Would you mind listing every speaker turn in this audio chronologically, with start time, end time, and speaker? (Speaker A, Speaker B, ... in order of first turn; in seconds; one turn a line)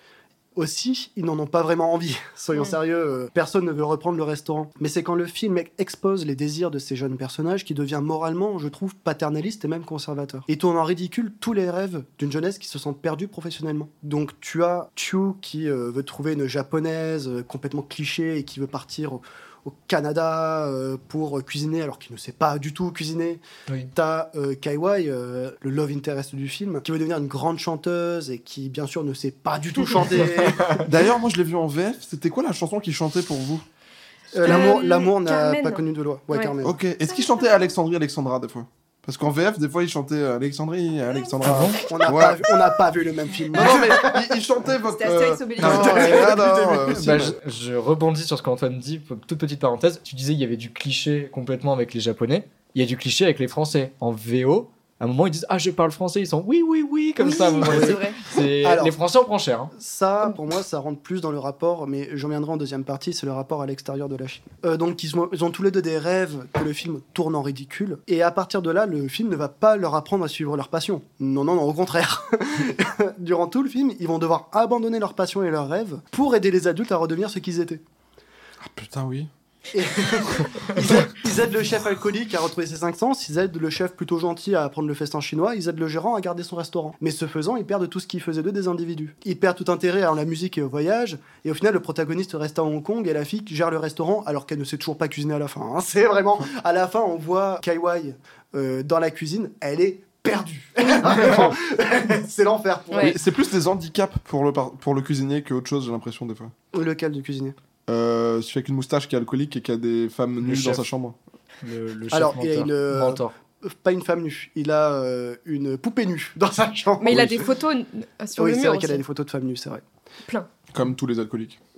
Speaker A: 0.6-23.4
Speaker A: 23.9-30.9
Speaker B: 30.5-30.9
Speaker C: 30.8-33.6
Speaker A: 34.3-36.8
Speaker D: 34.4-36.5
Speaker C: 36.6-42.4
Speaker D: 41.1-41.4
Speaker B: 41.4-41.8
Speaker A: 41.9-44.3
Speaker C: 43.5-47.4
Speaker D: 44.9-46.4
Speaker A: 45.6-47.4
Speaker B: 46.9-59.7
Speaker D: 57.2-58.3
Speaker A: 57.6-58.0
Speaker A: 58.6-58.9
Speaker A: 59.7-77.8
Speaker C: 78.6-79.3
Speaker A: 79.7-103.2
Speaker C: 101.0-101.5
Speaker D: 102.9-103.2
Speaker C: 103.0-106.5
Speaker A: 106.7-107.5
Speaker C: 107.9-111.2
Speaker B: 110.5-110.8
Speaker B: 111.6-113.3
Speaker A: 112.1-117.5
Speaker D: 117.0-119.0
Speaker A: 118.4-119.8
Speaker C: 120.7-121.6